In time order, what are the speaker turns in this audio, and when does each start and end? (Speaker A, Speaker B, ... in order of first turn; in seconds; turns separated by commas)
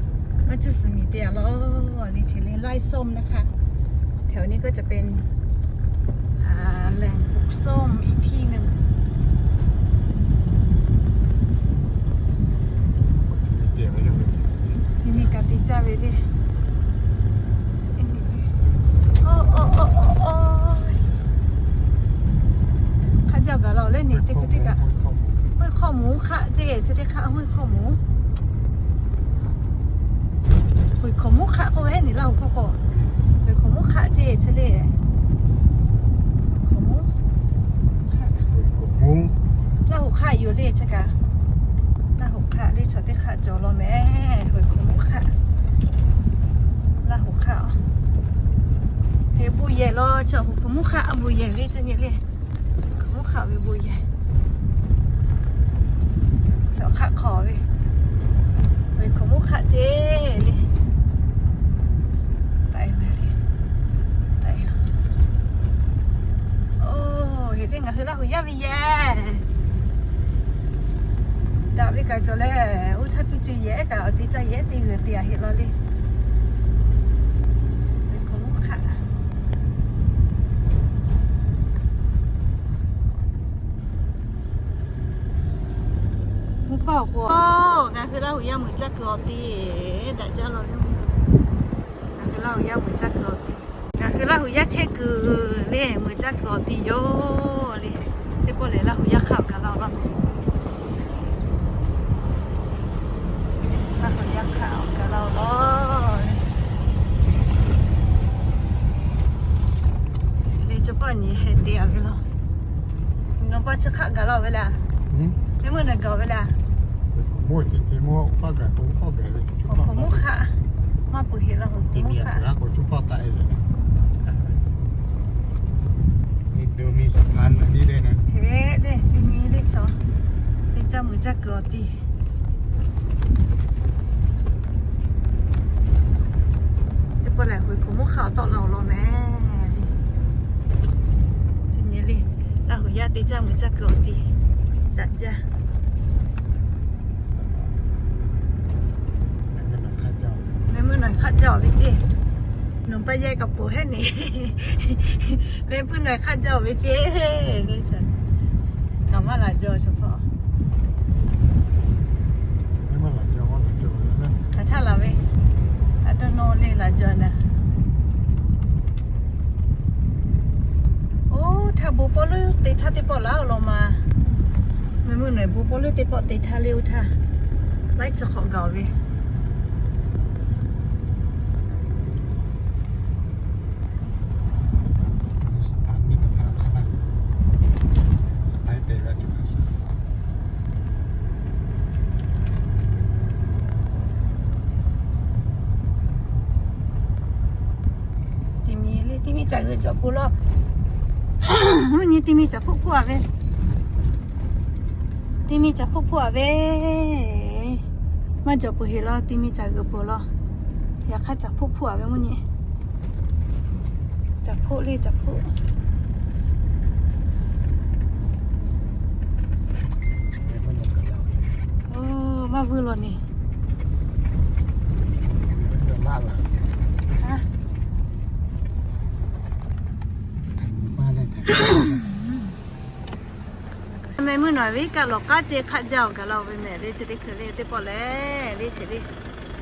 Speaker A: 0.4-3.5, Speaker A: 4.3-5.3, Speaker A: 6.4-8.8, Speaker B: 13.1-15.3, Speaker A: 15.0-16.3, Speaker A: 17.9-18.5, Speaker A: 19.2-21.2, Speaker A: 23.2-24.8, Speaker B: 24.1-25.5, Speaker A: 25.6-28.0, Speaker A: 31.0-32.8, Speaker A: 33.4-34.9, Speaker A: 36.5-37.1, Speaker A: 38.1-38.5, Speaker B: 38.5-39.4, Speaker A: 39.9-41.2, Speaker A: 42.1-45.4, Speaker A: 47.0-47.8, Speaker A: 49.3-52.2, Speaker A: 53.0-54.0, Speaker A: 56.7-57.6, Speaker A: 58.9-60.7, Speaker A: 62.7-63.4, Speaker A: 64.4-64.8, Speaker A: 66.8-69.4, Speaker A: 71.7-75.8, Speaker A: 78.1-79.0, Speaker A: 86.7-91.1, Speaker A: 92.2-100.2, Speaker A: 104.0-106.5, Speaker A: 110.5-112.2, Speaker A: 113.4-114.8, Speaker B: 115.1-115.4, Speaker A: 115.6-116.6, Speaker B: 117.1-120.3, Speaker A: 119.7-120.6, Speaker A: 121.1-122.5, Speaker B: 121.8-123.7, Speaker B: 124.2-124.6, Speaker B: 126.5-128.2, Speaker A: 128.2-129.9, Speaker A: 130.7-132.0, Speaker A: 137.2-139.9, Speaker A: 141.7-144.3, Speaker A: 144.9-145.4, Speaker B: 147.2-147.8, Speaker B: 149.5-150.6, Speaker A: 150.7-152.1, Speaker A: 152.8-158.1, Speaker A: 159.1-160.2, Speaker B: 162.7-164.4, Speaker A: 164.5-165.2, Speaker A: 166.0-167.5, Speaker A: 171.3-174.0, Speaker A: 175.0-177.1, Speaker A: 177.9-178.9, Speaker B: 185.4-187.1, Speaker B: 188.2-189.8, Speaker A: 198.6-200.3, Speaker A: 201.4-203.3, Speaker A: 205.5-207.8, Speaker A: 208.4-210.3, Speaker A: 211.1-212.4, Speaker A: 214.4-215.5, Speaker B: 220.3-221.6, Speaker A: 221.9-223.2, Speaker B: 225.3-226.8, Speaker A: 227.2-227.5, Speaker B: 230.5-232.0, Speaker A: 231.5-232.5, Speaker A: 233.9-239.1